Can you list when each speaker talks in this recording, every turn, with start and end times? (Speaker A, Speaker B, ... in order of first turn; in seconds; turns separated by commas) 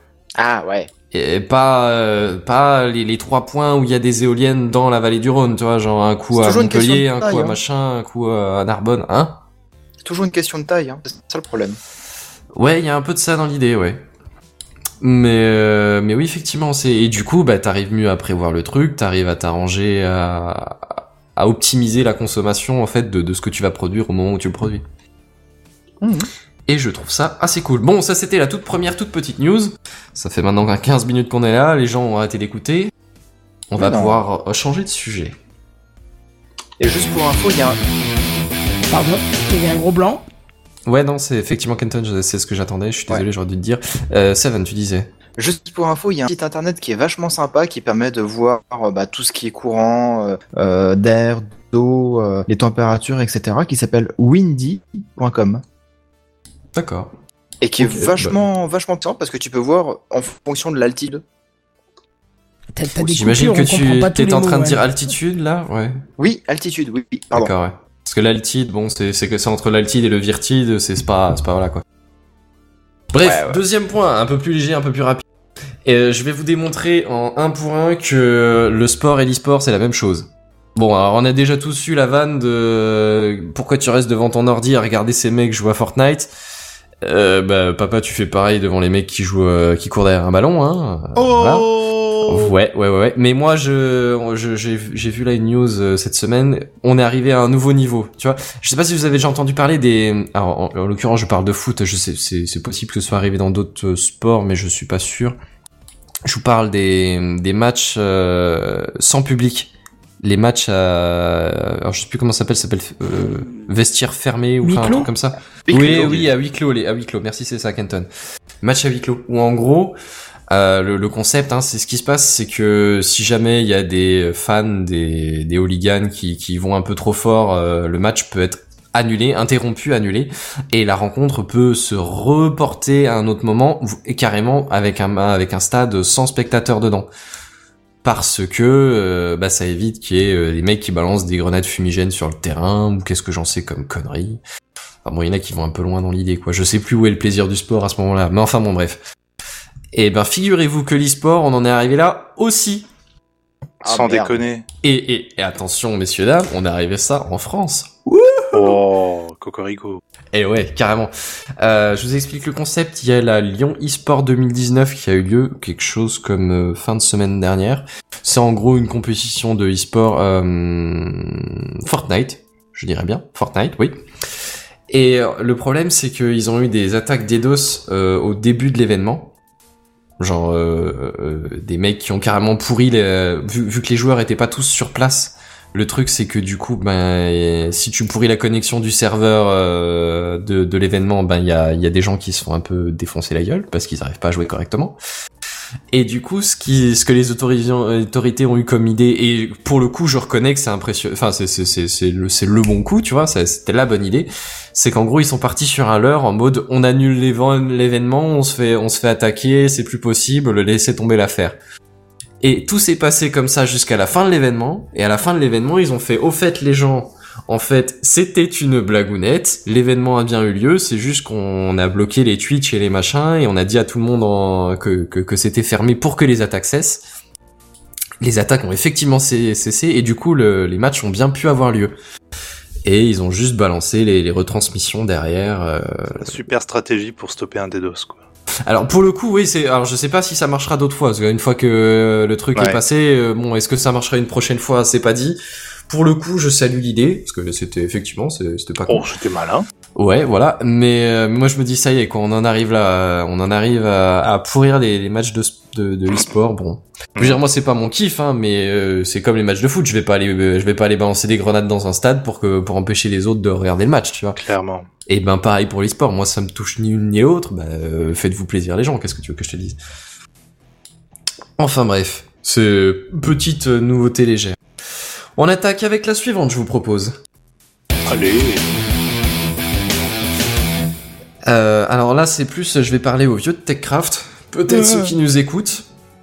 Speaker A: 0.4-0.9, Speaker B: 1.1-9.4, Speaker A: 6.3-7.6, Speaker A: 10.0-11.8, Speaker B: 12.5-14.0, Speaker B: 15.0-24.8, Speaker A: 26.0-26.3, Speaker B: 26.7-32.9, Speaker B: 33.7-35.4, Speaker A: 33.8-34.2, Speaker A: 36.8-37.8, Speaker C: 38.9-40.2, Speaker B: 40.9-45.1, Speaker A: 45.4-55.6, Speaker B: 56.8-57.1, Speaker A: 57.6-61.2, Speaker B: 57.8-58.4, Speaker C: 62.8-64.8, Speaker B: 63.0-66.0, Speaker A: 66.2-67.5, Speaker B: 67.3-71.8, Speaker B: 73.1-75.2, Speaker A: 73.2-73.6, Speaker B: 75.8-86.3, Speaker B: 87.0-91.7, Speaker D: 91.2-92.5, Speaker B: 92.3-105.4, Speaker B: 106.2-118.1, Speaker C: 114.6-115.1, Speaker A: 115.7-116.3, Speaker B: 118.6-120.0, Speaker B: 120.5-137.1, Speaker B: 138.0-144.4, Speaker B: 145.0-149.0, Speaker B: 149.9-152.9, Speaker D: 153.8-154.7, Speaker A: 153.8-154.4, Speaker B: 154.8-158.8, Speaker D: 158.5-160.0, Speaker B: 160.3-174.0, Speaker B: 174.9-179.3, Speaker B: 180.2-195.0, Speaker B: 195.9-211.6, Speaker B: 212.4-227.0, Speaker B: 228.2-231.9, Speaker B: 232.8-236.3, Speaker D: 236.2-238.2, Speaker B: 238.7-245.4, Speaker D: 242.6-242.8, Speaker B: 245.9-249.1, Speaker D: 248.9-249.7, Speaker B: 250.0-264.4, Speaker D: 264.4-264.9, Speaker B: 265.1-269.8, Speaker B: 271.6-274.6, Speaker B: 275.4-277.1, Speaker D: 278.1-278.6, Speaker B: 281.4-285.9